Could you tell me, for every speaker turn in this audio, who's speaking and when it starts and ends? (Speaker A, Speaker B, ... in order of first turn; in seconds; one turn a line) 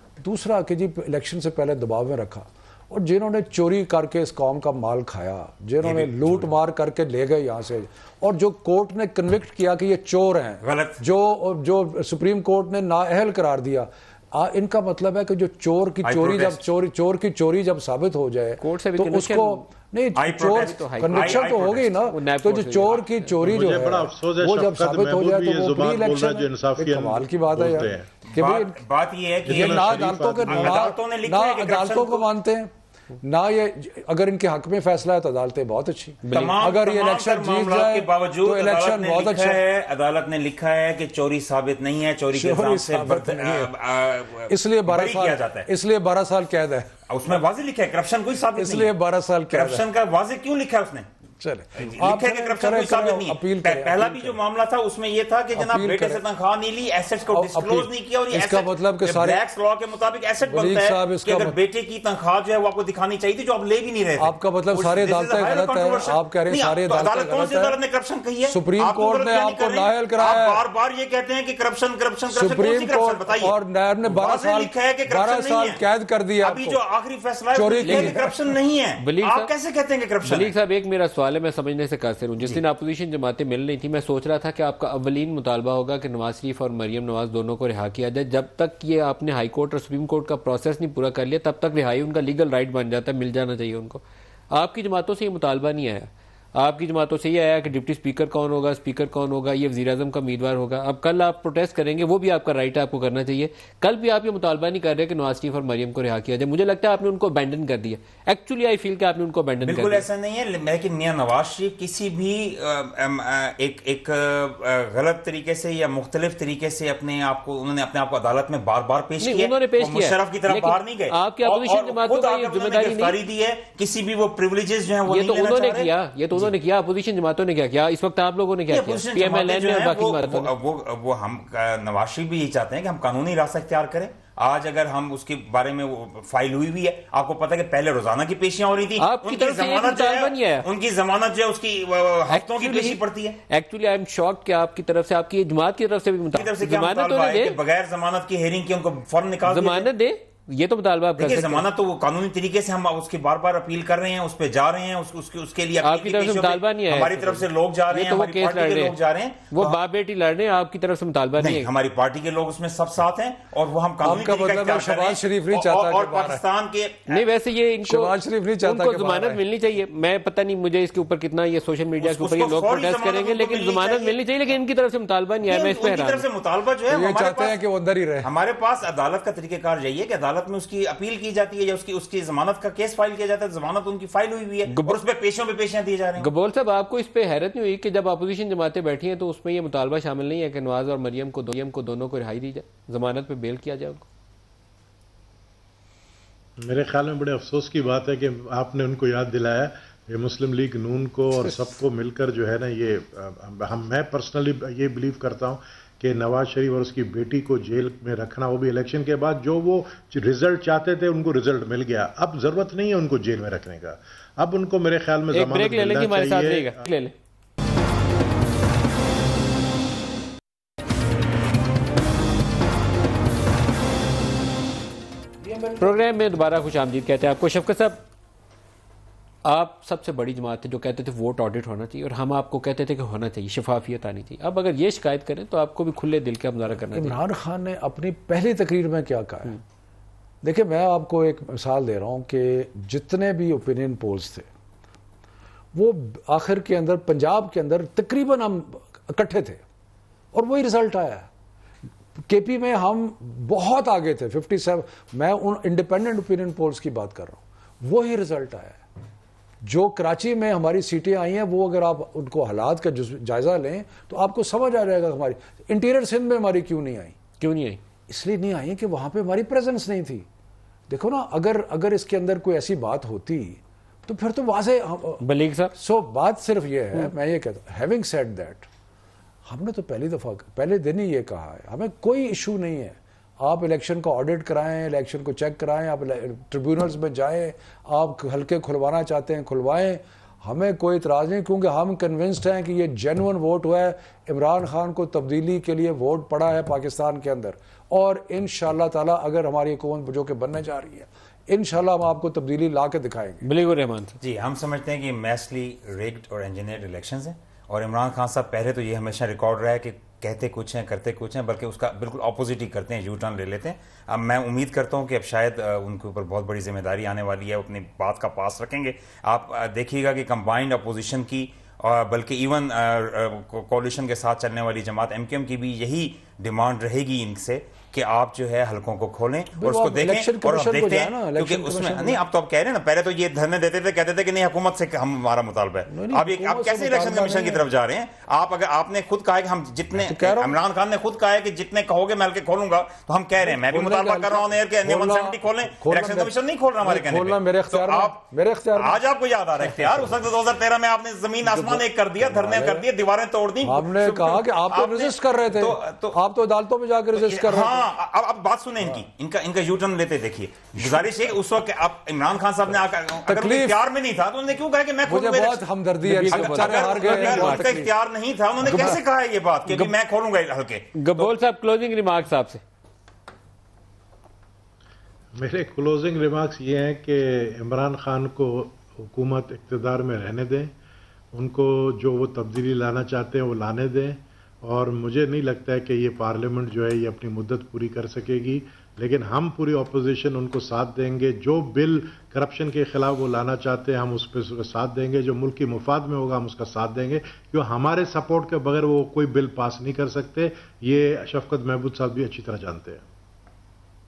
Speaker A: 0.2-28.8
Speaker B: 5.8-6.5
Speaker B: 10.6-11.0
Speaker B: 16.0-16.6
Speaker C: 18.6-19.7
Speaker B: 20.1-22.0
Speaker C: 20.5-21.5
Speaker C: 22.1-23.3
Speaker D: 23.4-28.1
Speaker B: 28.2-32.3
Speaker D: 29.4-30.8
Speaker A: 29.5-39.6
Speaker C: 36.3-36.5
Speaker B: 36.3-45.7
Speaker A: 42.3-43.7
Speaker A: 44.5-46.9
Speaker B: 47.1-48.9
Speaker A: 48.5-49.9
Speaker B: 49.5-51.1
Speaker A: 51.4-54.4
Speaker B: 51.8-75.8
Speaker A: 55.5-56.2
Speaker A: 57.3-59.4
Speaker A: 60.5-61.6
Speaker A: 64.2-67.8
Speaker A: 68.4-70.6
Speaker A: 72.3-76.8
Speaker B: 76.4-80.5
Speaker A: 77.5-78.3
Speaker C: 77.8-78.2
Speaker C: 79.0-79.5
Speaker C: 80.2-110.0
Speaker B: 109.6-126.5
Speaker C: 119.2-123.2
Speaker C: 125.1-130.5
Speaker B: 128.7-143.4
Speaker C: 139.0-140.7
Speaker C: 142.3-147.6
Speaker B: 146.3-149.9
Speaker C: 149.4-151.6
Speaker B: 151.2-159.8
Speaker C: 155.8-158.9
Speaker C: 159.5-161.7
Speaker B: 161.4-167.2
Speaker A: 164.0-166.4
Speaker C: 167.1-176.2
Speaker A: 167.8-169.4
Speaker B: 172.0-174.2
Speaker B: 175.5-177.6
Speaker A: 176.9-178.3
Speaker B: 178.2-186.3
Speaker C: 184.7-185.0
Speaker C: 186.2-194.0
Speaker D: 196.6-216.8
Speaker C: 215.3-217.1
Speaker A: 225.4-226.1
Speaker C: 225.8-228.0
Speaker C: 229.4-237.2
Speaker A: 236.9-239.6
Speaker A: 240.4-244.5
Speaker A: 245.7-249.6
Speaker A: 250.3-251.3
Speaker A: 252.2-258.8
Speaker A: 259.6-267.1
Speaker C: 267.4-267.8
Speaker A: 268.1-270.3
Speaker A: 270.9-275.2
Speaker C: 275.2-275.7
Speaker A: 275.7-278.7
Speaker A: 279.4-303.4
Speaker C: 303.4-304.2
Speaker B: 304.2-348.2
Speaker A: 329.6-332.2
Speaker A: 335.9-337.7
Speaker A: 339.9-340.6
Speaker A: 343.4-349.0
Speaker B: 348.7-356.2
Speaker A: 351.4-352.9
Speaker A: 353.6-357.9
Speaker B: 357.1-365.6
Speaker A: 360.8-361.2
Speaker A: 363.2-363.8
Speaker A: 365.1-367.9
Speaker C: 366.0-367.9
Speaker B: 366.3-371.3
Speaker A: 368.6-369.0
Speaker C: 369.7-369.9
Speaker C: 370.9-372.6
Speaker D: 375.3-380.7
Speaker D: 381.3-403.1